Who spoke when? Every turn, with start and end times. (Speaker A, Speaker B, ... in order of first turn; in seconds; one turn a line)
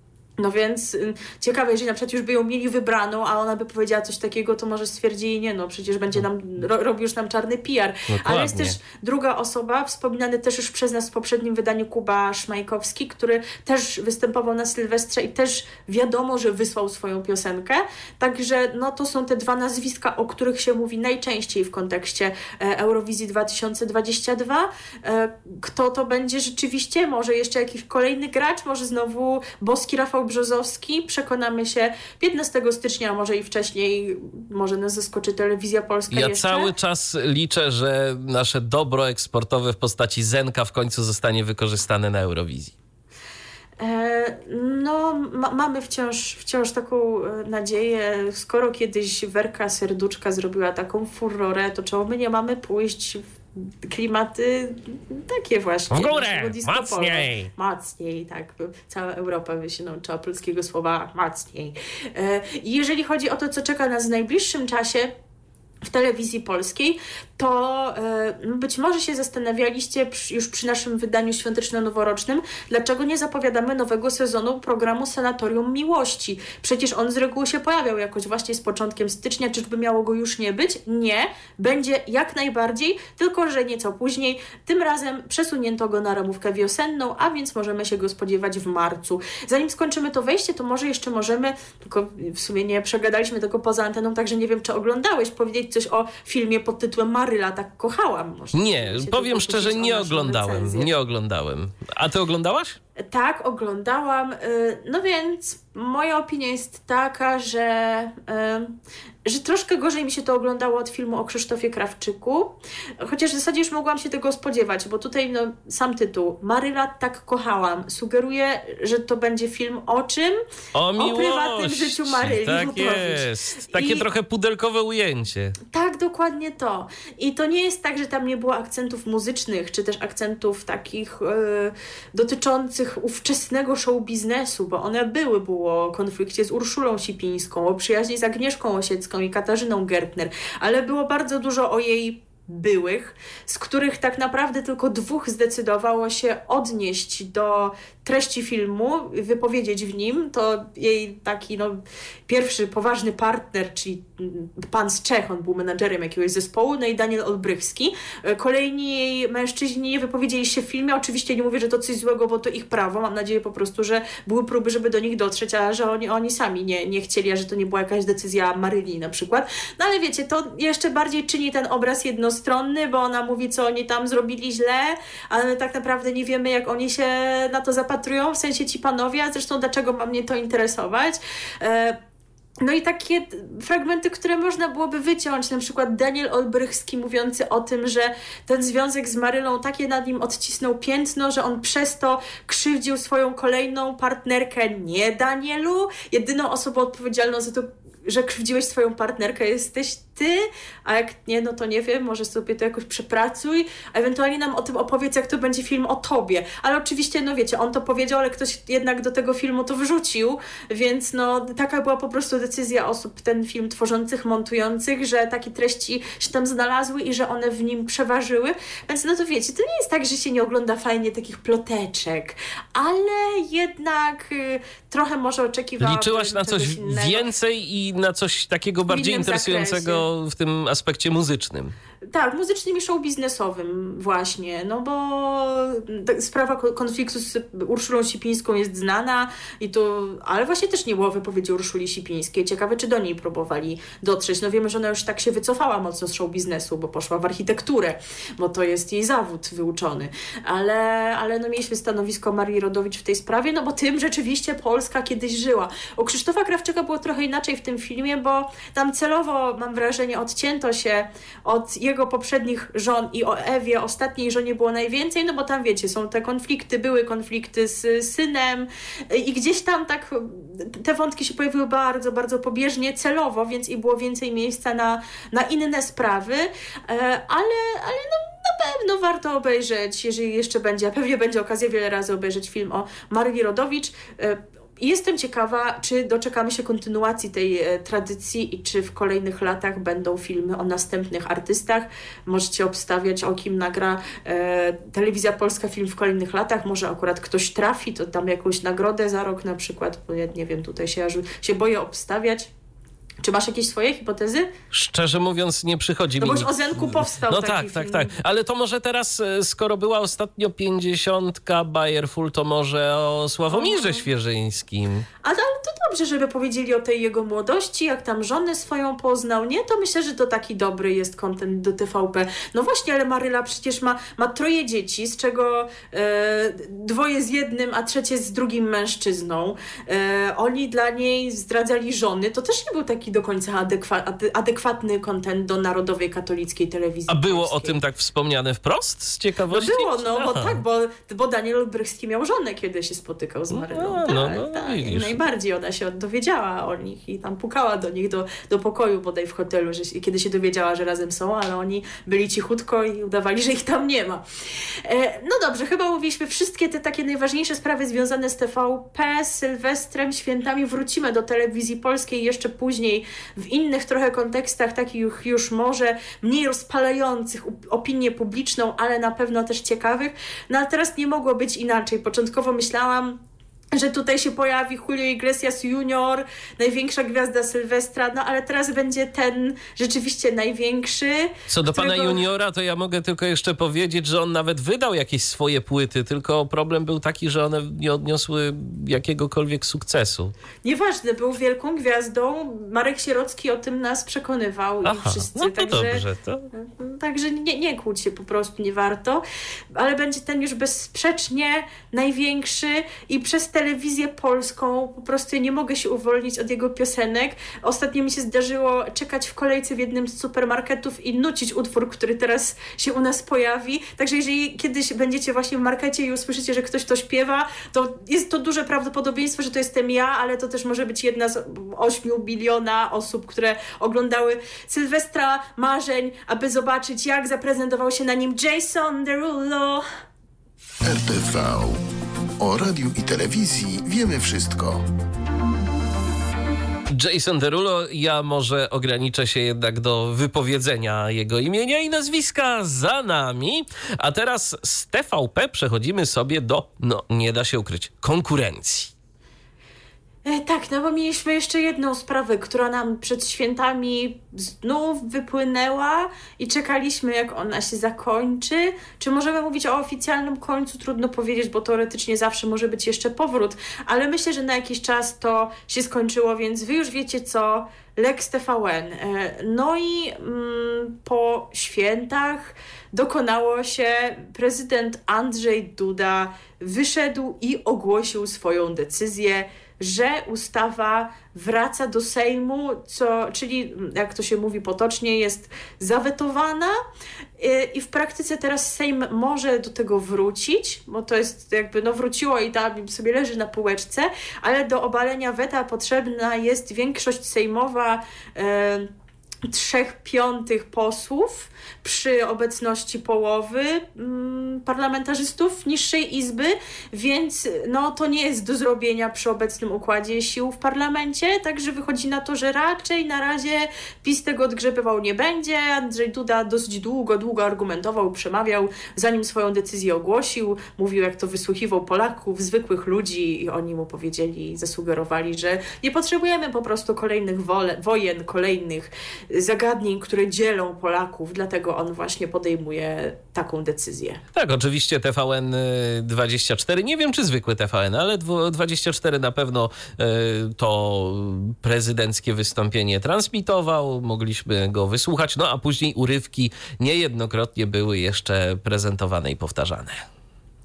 Speaker A: 0.4-36.7
Speaker B: 8.1-8.8
Speaker B: 36.1-42.7
Speaker A: 43.8-53.2
Speaker A: 53.9-65.1
Speaker B: 55.9-57.5
Speaker A: 65.8-100.9
Speaker B: 98.5-102.8
Speaker A: 103.0-108.8
Speaker A: 109.3-120.4
Speaker B: 120.8-125.6
Speaker A: 121.0-124.1
Speaker A: 125.7-182.0
Speaker A: 182.6-227.3
Speaker B: 225.8-231.7
Speaker A: 228.9-230.1
Speaker A: 232.1-302.5
Speaker A: 303.2-304.5
Speaker B: 304.7-315.1
Speaker A: 306.2-308.1
Speaker A: 313.5-314.1
Speaker A: 315.2-337.8
Speaker B: 337.1-340.6
Speaker A: 339.5-354.2
Speaker B: 343.5-345.2
Speaker A: 354.8-373.2
Speaker A: 373.7-382.2
Speaker B: 381.5-390.3
Speaker A: 390.6-429.8
Speaker B: 394.9-396.5
Speaker C: 430.9-431.8
Speaker C: 432.4-434.8
Speaker B: 436.9-448.9
Speaker A: 450.3-486.7
Speaker A: 487.4-498.9
Speaker A: 499.5-534.2
Speaker B: 534.4-550.0